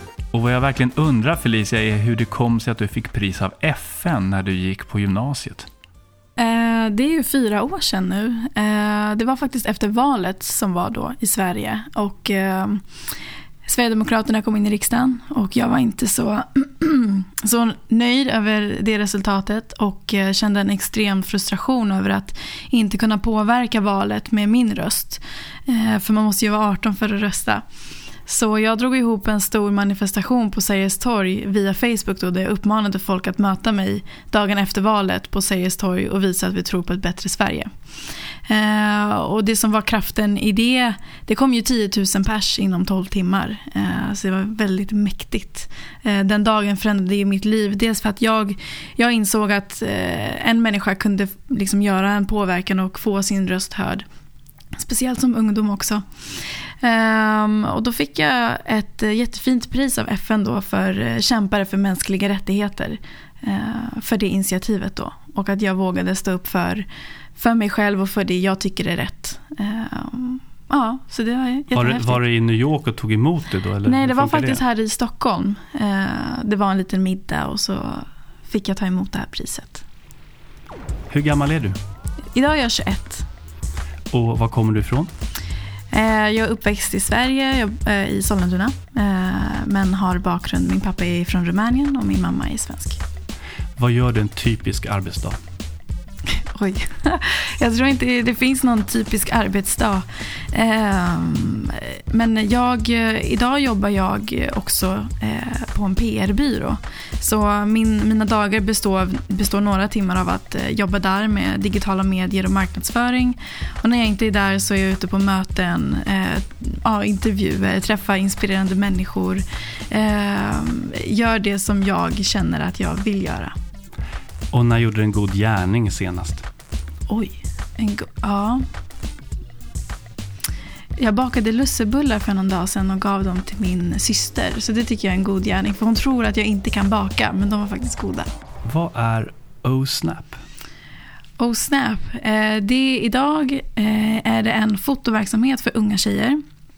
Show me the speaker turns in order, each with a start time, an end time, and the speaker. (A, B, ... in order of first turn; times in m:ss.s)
0:00.3-0:05.7 A
0:06.4-0:12.8 B
0:13.7-0:27.6 B
0:28.3-0:37.7 B
0:38.5-0:54.0 B
0:54.8-0:56.0 B
0:56.8-1:06.9 B
1:07.4-1:12.2 B
1:11.7-1:14.6 A
1:13.8-1:19.8 B
1:21.1-1:21.8 A
1:22.4-1:23.3 B
1:24.1-1:25.1 A
1:25.9-1:33.0 B
1:33.8-1:35.4 A
1:36.3-2:03.5 B
2:04.5-2:06.5 A
2:07.1-2:08.6 B
2:11.0-2:18.3 B
2:18.6-2:20.4 A
2:21.4-2:26.4 B